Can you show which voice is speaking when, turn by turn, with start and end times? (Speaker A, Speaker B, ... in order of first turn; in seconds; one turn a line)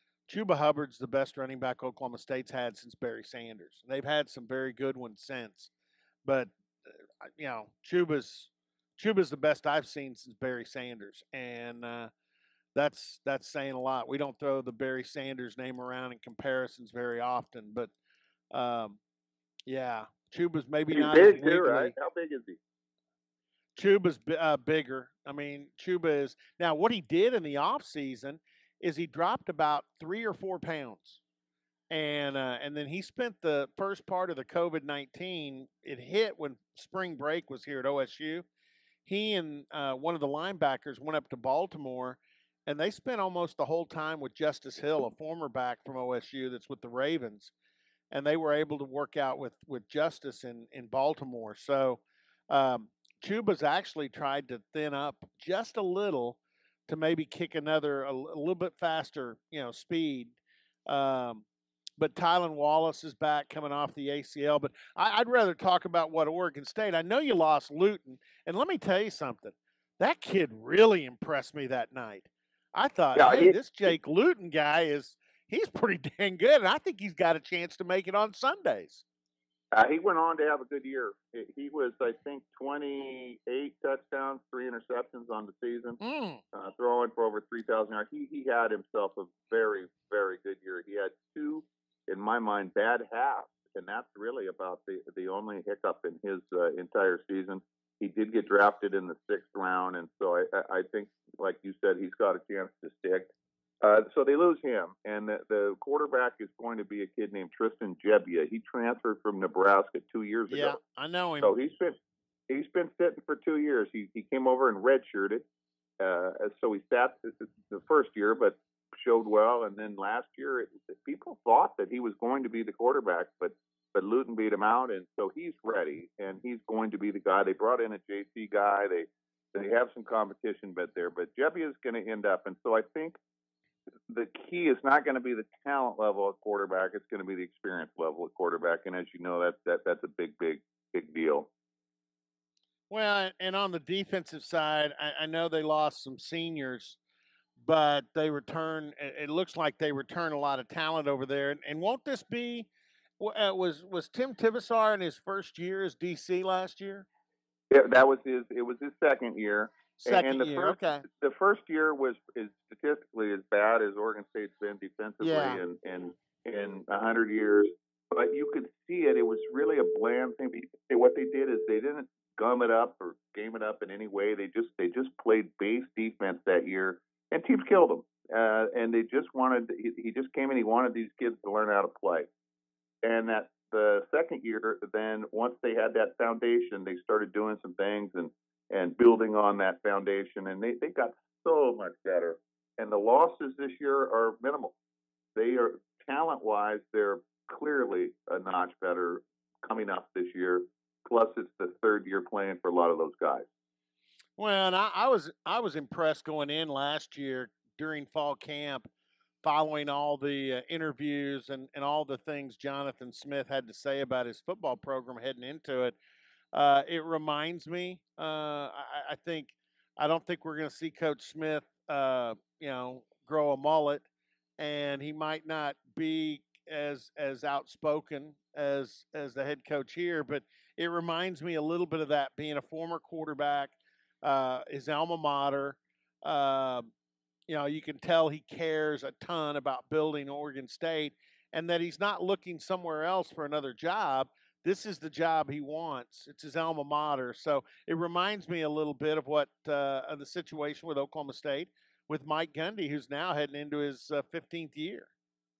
Speaker A: 0.3-5.7
Speaker A: 6.2-6.5
Speaker A: 7.2-12.1
Speaker A: 12.7-17.9
Speaker A: 18.5-19.0
Speaker A: 19.7-21.9
Speaker B: 20.9-22.6
Speaker A: 23.7-31.2
Speaker A: 31.9-38.4
Speaker A: 39.0-47.5
Speaker A: 48.1-60.4
Speaker A: 60.9-61.4
Speaker A: 62.0-79.0
Speaker B: 73.1-73.9
Speaker B: 79.7-86.0
Speaker A: 86.0-86.4
Speaker B: 86.5-110.8
Speaker A: 110.5-111.5
Speaker B: 111.4-112.0
Speaker B: 112.5-115.4
Speaker B: 116.0-133.2
Speaker B: 134.1-141.5
Speaker A: 142.9-147.0
Speaker A: 147.6-152.7
Speaker A: 153.2-157.1
Speaker B: 157.7-182.3
Speaker A: 160.0-161.0
Speaker A: 165.2-165.6
Speaker B: 183.0-194.8
Speaker B: 195.3-203.5
Speaker A: 204.4-208.9
Speaker A: 209.4-215.9
Speaker A: 216.5-224.0
Speaker A: 224.6-236.9
Speaker A: 237.5-255.1